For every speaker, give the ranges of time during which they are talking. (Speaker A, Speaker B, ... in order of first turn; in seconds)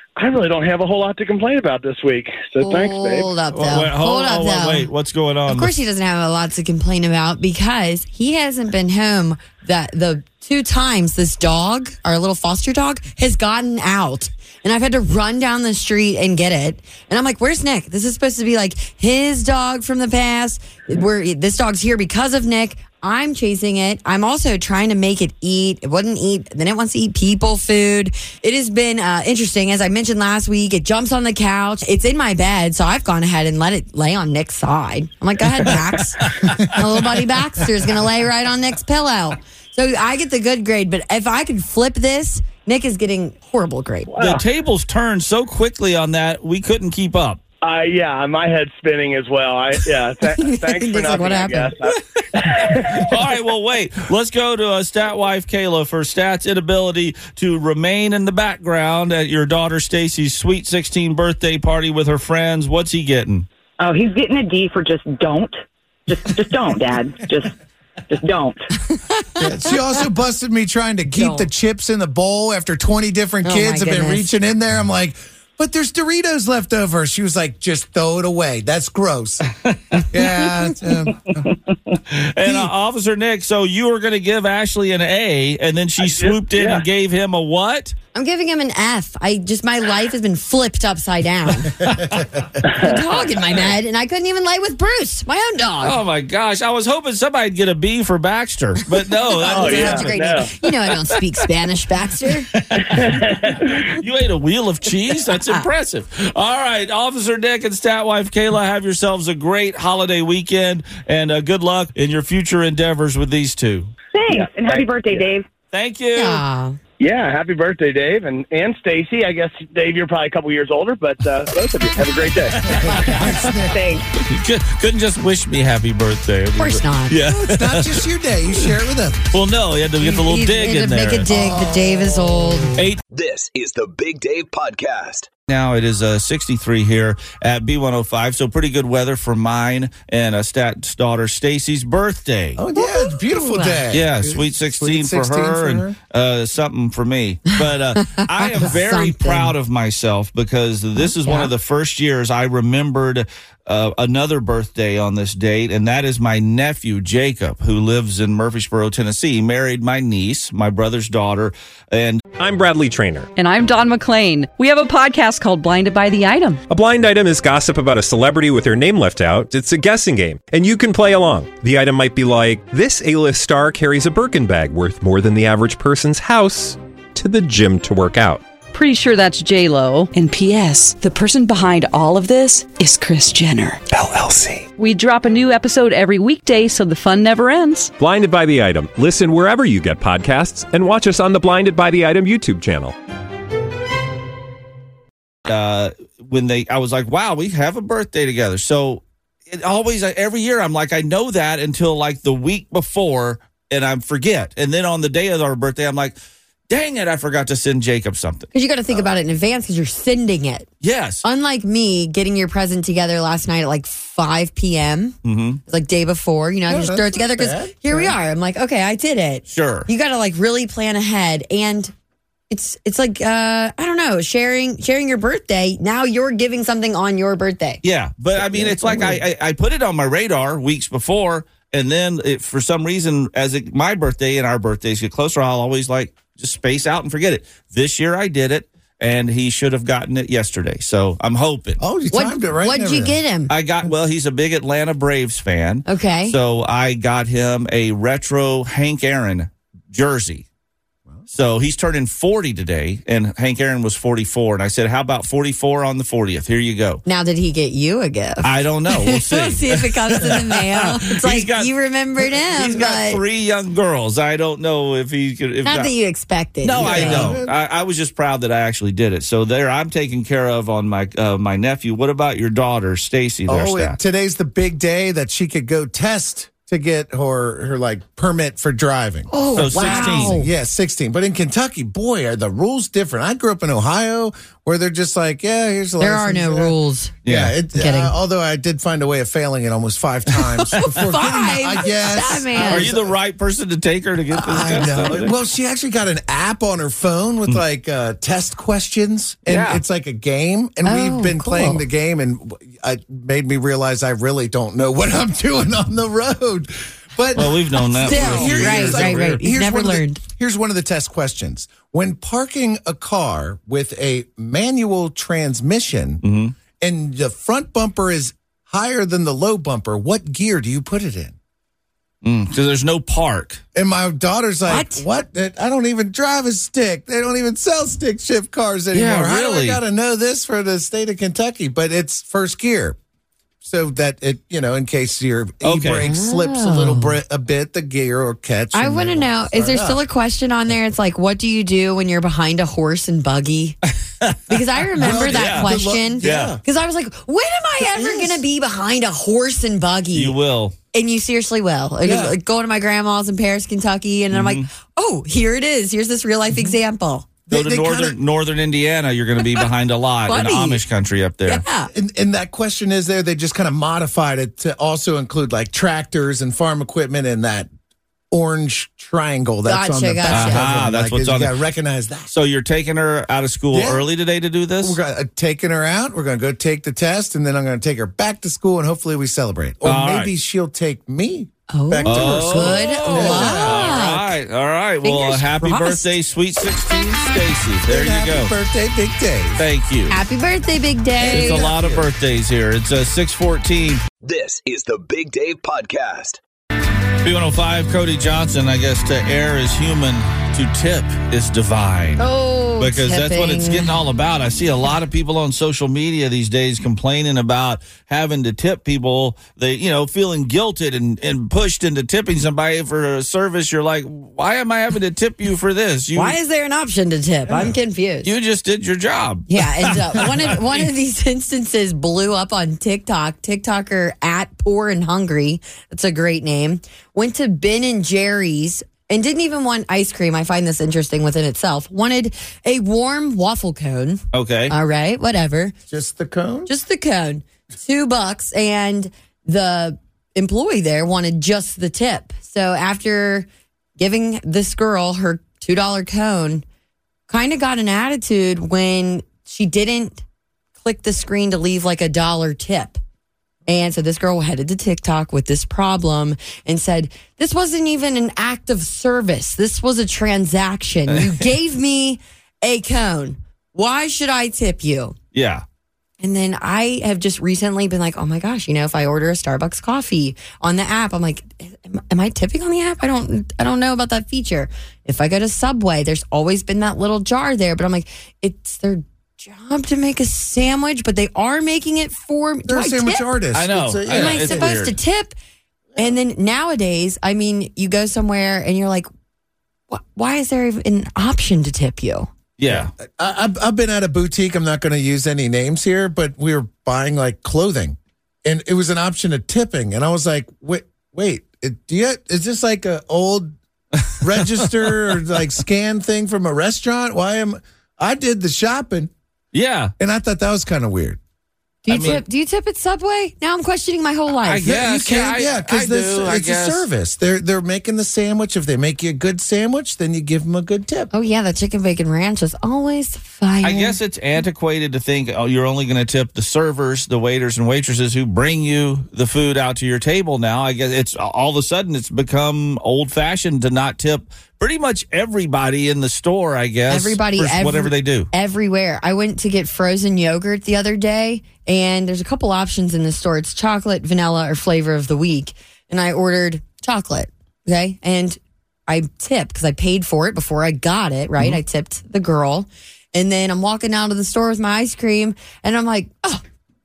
Speaker A: 0.2-3.3, 44.1-44.4, 47.6-53.1, 86.0-86.8, 92.6-93.1, 99.4-100.5, 102.8-103.9, 114.3-115.3, 117.0-123.2
Speaker B: 2.6-4.9, 5.5-44.1, 50.3-51.7, 68.9-69.7, 71.1-71.5, 73.4-74.3, 88.1-91.9, 92.8-96.0, 99.5-102.5, 116.1-116.8, 126.6-127.1, 130.0-132.7, 142.7-143.8, 148.5-149.5, 151.0-151.5, 208.5-210.7, 211.2-215.1, 215.7-221.9, 222.5-227.8, 242.1-243.5, 245.9-246.3, 257.1-263.2, 265.6-267.3, 279.3-280.5, 286.0-287.2, 287.7-288.1, 290.8-292.9, 294.5-294.8, 300.8-301.8, 307.9-310.2, 324.7-325.0, 336.0-337.2, 338.7-343.8, 344.5-350.3, 350.9-357.3, 360.3-360.8, 361.4-361.9, 369.6-370.8, 381.7-384.3, 385.0-386.1, 390.1-391.7, 402.2-403.9, 416.1-418.3, 419.5-435.7, 436.7-443.5, 444.0-446.6, 447.3-450.2, 450.8-453.0, 453.7-465.1, 466.2-483.2, 484.1-485.3, 486.0-489.1, 489.9-492.3, 511.8-514.7, 521.1-524.0, 536.9-556.4
Speaker C: 3.5-5.7, 44.2-47.4, 52.9-63.5, 79.6-80.0, 82.1-87.9, 95.8-100.1, 102.6-103.1, 104.0-113.9, 115.7-116.4, 122.7-123.3, 124.2-128.0, 129.3-131.2, 135.5-142.6, 143.9-162.2, 195.5-206.2, 206.7-208.5, 210.8-211.2, 215.2-215.6, 219.5-219.9, 227.8-241.8, 243.5-250.4, 251.3-257.0, 258.4-261.7, 262.3-265.9, 266.6-274.0, 279.5-280.4, 287.2-287.5, 292.5-295.3, 299.5-299.8, 307.3-309.4, 316.2-316.5, 322.2-323.6, 328.9-329.8, 335.6-336.1, 344.9-345.7, 346.2-346.5, 350.1-350.7, 354.3-354.7, 357.5-361.6, 370.3-371.5, 372.3-375.0, 379.8-380.3, 382.0-388.5, 389.6-390.2, 391.3-394.0, 397.2-402.2, 402.8-416.4, 418.2-420.9, 434.3-434.7, 465.3-465.6, 483.5-485.0, 492.6-492.9, 504.4-504.9, 509.5-509.9, 511.9-512.2, 514.4-516.8, 523.6-538.3
Speaker D: 63.8-67.5, 68.1-68.6, 114.1-115.5, 123.7-124.0
Speaker E: 69.4-79.4, 80.1-81.4, 91.8-92.6, 99.5-100.1, 122.7-123.8, 127.3-129.3, 131.2-132.4, 142.6-145.9, 216.7-218.2, 228.3-229.2, 241.8-243.2, 266.7-267.5, 273.5-293.1, 294.4-316.2, 316.8-321.4, 323.7-333.0, 333.6-340.0, 345.0-346.6, 347.8-348.4, 352.0-352.4, 357.5-358.2, 361.9-367.7, 368.3-372.3, 373.7-374.0, 374.8-384.0, 387.9-389.6, 391.1-392.1, 435.9-436.7, 482.6-484.7, 492.6-503.5, 504.2-509.1, 510.0-511.2, 514.6-521.1
Speaker F: 133.1-135.3, 394.2-396.4
Speaker G: 162.4-163.3, 166.7-178.4, 183.9-184.6, 188.0-192.9
Speaker H: 163.3-166.6, 178.7-183.8, 184.7-187.9